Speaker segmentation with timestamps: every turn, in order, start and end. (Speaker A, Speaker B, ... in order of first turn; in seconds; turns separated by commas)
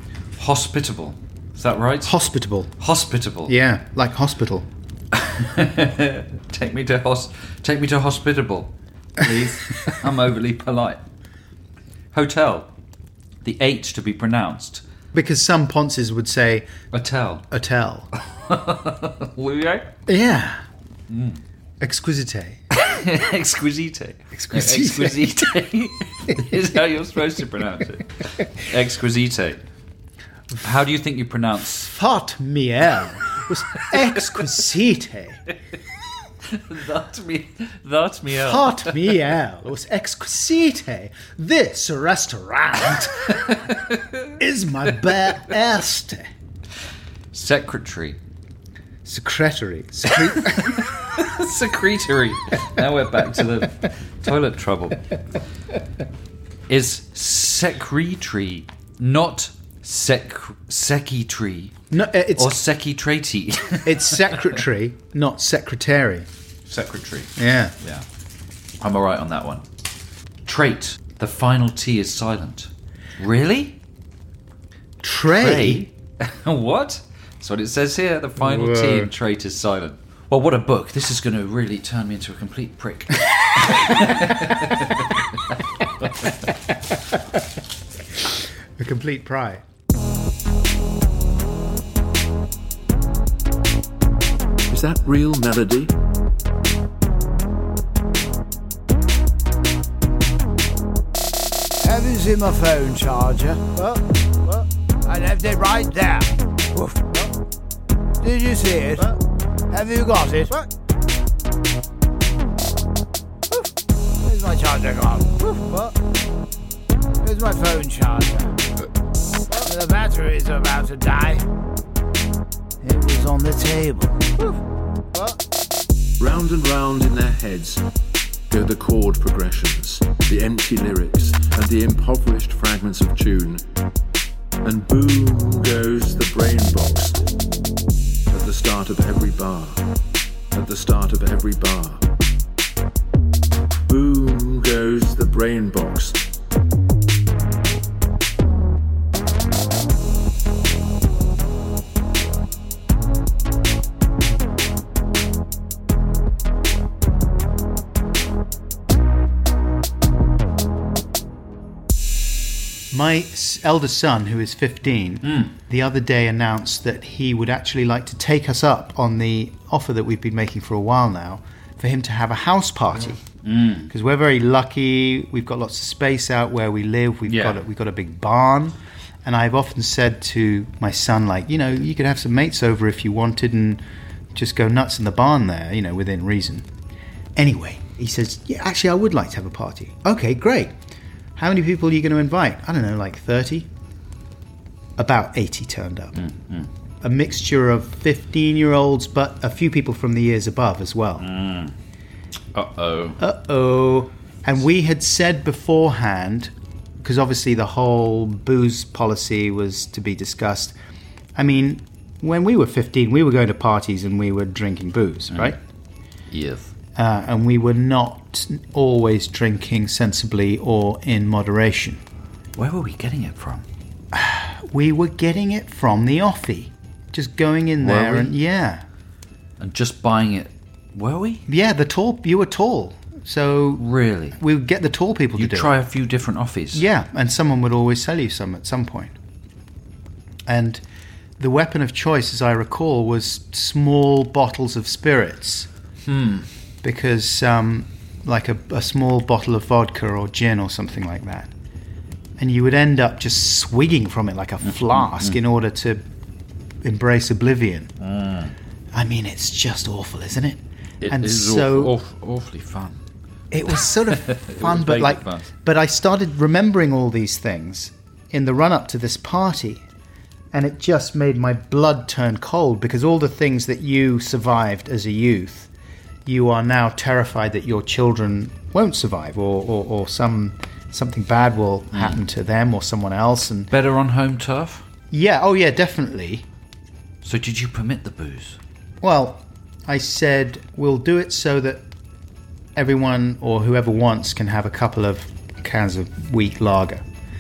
Speaker A: 0.3-2.1, Speaker B: 2.0-2.7, Speaker A: 2.8-3.6, Speaker B: 3.5-4.7, Speaker A: 5.1-11.0, Speaker A: 12.1-12.7, Speaker A: 13.4-14.8, Speaker B: 15.1-16.7, Speaker A: 16.9-17.4, Speaker B: 17.5-18.1, Speaker A: 18.2-19.9, Speaker B: 20.1-20.6, Speaker A: 21.1-21.4, Speaker B: 21.8-22.6, Speaker A: 22.7-29.6, Speaker B: 24.3-25.5, Speaker A: 30.6-31.9, Speaker B: 31.9-35.4, Speaker A: 33.9-34.4, Speaker A: 36.4-39.2, Speaker B: 38.4-43.4, Speaker A: 43.3-44.3, Speaker B: 44.4-46.3, Speaker A: 47.3-48.2, Speaker B: 49.0-50.9, Speaker A: 50.2-55.1, Speaker A: 56.7-61.8, Speaker B: 61.9-62.5, Speaker A: 62.4-64.6, Speaker B: 63.9-66.3, Speaker A: 66.7-68.1, Speaker B: 67.4-67.8, Speaker A: 68.8-69.7, Speaker A: 70.5-73.8, Speaker B: 75.0-75.9, Speaker A: 75.3-86.3, Speaker B: 78.4-79.1, Speaker B: 88.8-89.6, Speaker C: 94.7-95.9, Speaker B: 102.0-103.4, Speaker D: 102.1-102.5, Speaker D: 103.0-103.8, Speaker D: 105.2-106.1, Speaker B: 106.8-107.2, Speaker B: 108.2-109.2, Speaker B: 109.8-110.5, Speaker D: 110.0-110.3, Speaker D: 114.3-115.8, Speaker B: 114.6-115.8, Speaker B: 117.3-117.9, Speaker D: 117.3-118.3, Speaker B: 119.7-120.2, Speaker D: 119.7-121.4, Speaker B: 122.8-124.4, Speaker C: 126.2-127.8, Speaker C: 128.5-133.6, Speaker C: 134.6-137.2, Speaker C: 138.3-139.8, Speaker C: 140.5-142.0, Speaker C: 143.9-146.2, Speaker B: 162.9-173.2, Speaker A: 165.2-165.5, Speaker A: 173.4-173.9, Speaker B: 173.9-183.8, Speaker A: 177.3-177.6, Speaker B: 184.3-186.7, Speaker B: 187.4-190.7, Speaker B: 191.4-193.7, Speaker B: 195.0-196.2, Speaker A: 196.2-196.7, Speaker B: 197.0-201.3, Speaker A: 201.2-201.8, Speaker A: 202.5-203.2, Speaker B: 203.2-210.7, Speaker B: 211.4-215.6, Speaker A: 215.3-215.6, Speaker A: 216.3-216.7, Speaker B: 217.0-222.0, Speaker A: 222.6-223.7, Speaker B: 224.1-228.8, Speaker A: 227.8-228.3, Speaker A: 229.6-231.4, Speaker B: 231.5-233.8, Speaker A: 233.8-234.4, Speaker B: 234.4-235.7, Speaker A: 235.4-236.8, Speaker B: 236.7-239.1, Speaker B: 240.5-240.8, Speaker B: 241.4-245.7, Speaker A: 246.1-246.5, Speaker B: 246.8-251.5, Speaker B: 252.4-256.0, Speaker A: 254.6-255.4, Speaker B: 256.8-257.9, Speaker A: 258.0-258.6, Speaker B: 258.9-261.9, Speaker A: 261.0-263.0, Speaker B: 263.5-269.8, Speaker A: 263.7-265.5, Speaker B: 270.5-275.7, Speaker B: 276.3-283.7, Speaker A: 281.9-282.2, Speaker A: 283.7-284.9, Speaker B: 285.1-286.4, Speaker A: 287.2-288.6, Speaker B: 289.0-291.8, Speaker B: 292.8-297.0